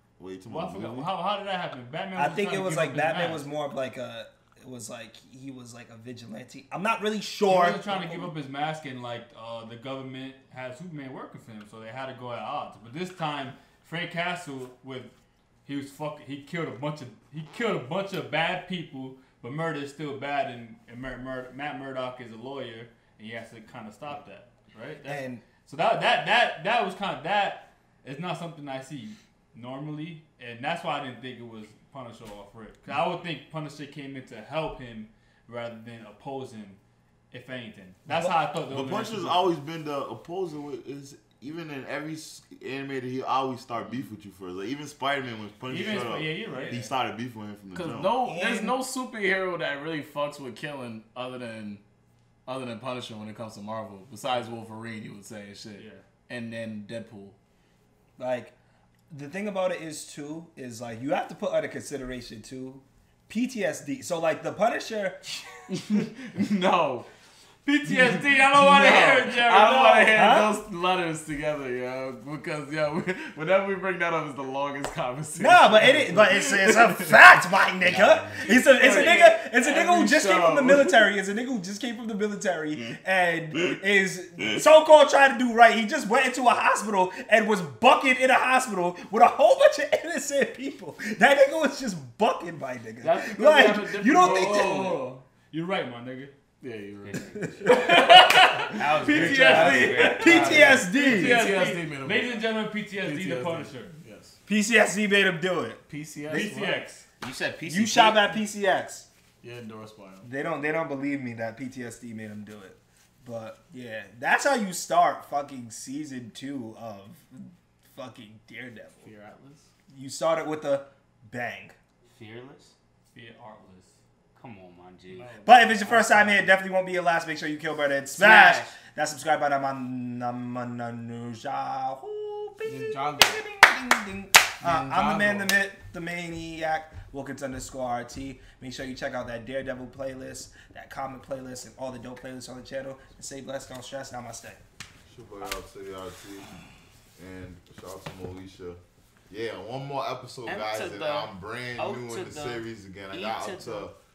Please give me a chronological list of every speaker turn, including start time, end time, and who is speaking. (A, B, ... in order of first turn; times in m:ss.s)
0:00.2-0:01.1 A
0:00.4-0:03.4 B
0:02.1-0:08.3 C
0:07.4-0:36.8 B
0:25.0-0:25.4 C
0:37.3-0:39.5 B
0:38.6-0:48.2 A
0:45.7-0:46.9 B
0:47.7-0:51.8 D
0:48.2-0:48.8 C
0:52.4-0:57.4 D
0:55.8-0:56.0 B
0:58.2-0:58.5 C
0:59.1-1:06.0 C
1:05.7-1:07.1 D
1:07.6-1:10.2 B
1:08.4-1:17.2 D
1:10.1-1:10.6 C
1:15.3-1:35.0 C
1:17.9-1:21.0 D
1:33.0-1:35.1 D
1:34.1-1:36.3 B
1:36.6-1:42.4 D
1:37.0-1:37.4 E
1:37.4-1:37.8 C
1:37.6-1:43.9 B
1:38.7-1:40.8 E
1:39.1-1:41.4 C
1:43.0-1:44.4 D
1:44.4-1:46.6 C
1:45.9-1:46.9 D
1:46.3-1:47.0 B
1:47.2-1:48.3 E
1:47.7-1:49.1 C
1:49.4-1:50.3 D
1:50.2-1:59.1 C
1:59.0-1:59.7 D
1:59.9-2:01.7 C
2:02.1-2:02.7 E
2:03.1-2:04.0 B
2:04.3-2:05.4 E
2:05.1-2:06.5 D
2:05.4-2:24.6 C
2:08.1-2:08.7 E
2:12.6-2:13.4 D
2:14.6-2:15.5 D
2:25.0-2:26.5 A
2:27.2-2:33.9 A
2:30.4-2:33.9 E